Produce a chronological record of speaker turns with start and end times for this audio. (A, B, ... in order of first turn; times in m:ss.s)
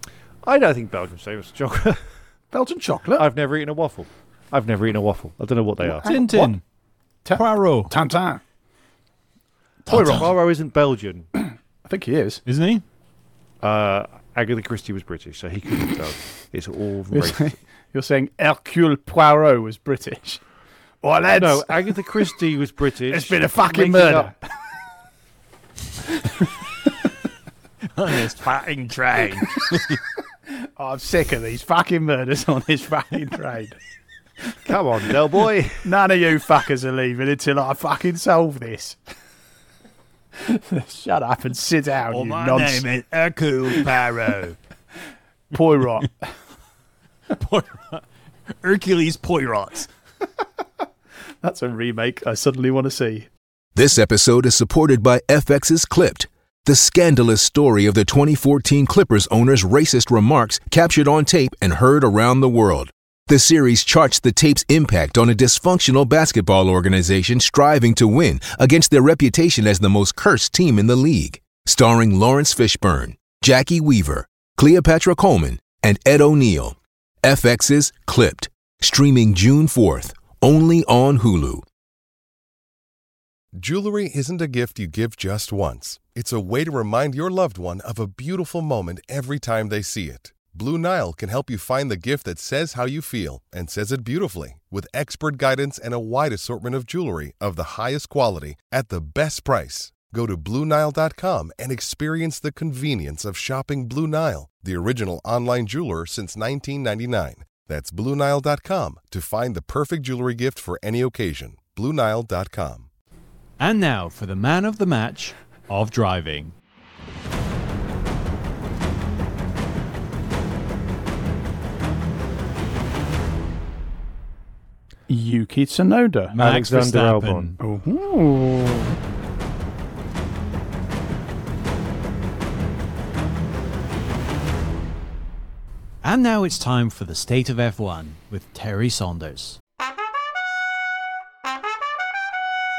0:00.4-0:02.1 A
0:02.5-0:03.2 B
0:03.1-0:06.1 A
0:05.9-0:06.6 B
0:06.0-0:06.6 C
0:07.2-0:08.4 B
0:07.3-0:07.9 C
0:09.9-0:10.3 C
0:09.9-0:11.3 A
0:11.4-0:12.4 B
0:12.4-0:12.8 C
0:13.6-0:17.5 A
0:17.1-0:20.4 B
0:21.0-0:21.9 B
0:21.3-0:24.4 A
0:23.1-0:24.3 B
0:27.9-0:30.0 C
0:30.8-0:33.8 B
0:34.6-0:35.9 A
0:35.8-0:39.0 B
0:40.4-0:42.8 B
0:42.1-0:44.6 C
0:45.5-0:46.1 B
0:47.3-0:48.0 C
0:48.6-0:49.9 C
0:51.4-0:53.3 B
0:53.7-1:21.6 D
1:23.5-1:52.9 E
1:53.6-1:56.5 C
2:05.1-2:06.3 B
2:06.3-2:07.6 C
2:06.4-2:07.6 A
2:07.6-2:08.9 B
2:16.0-2:19.6 C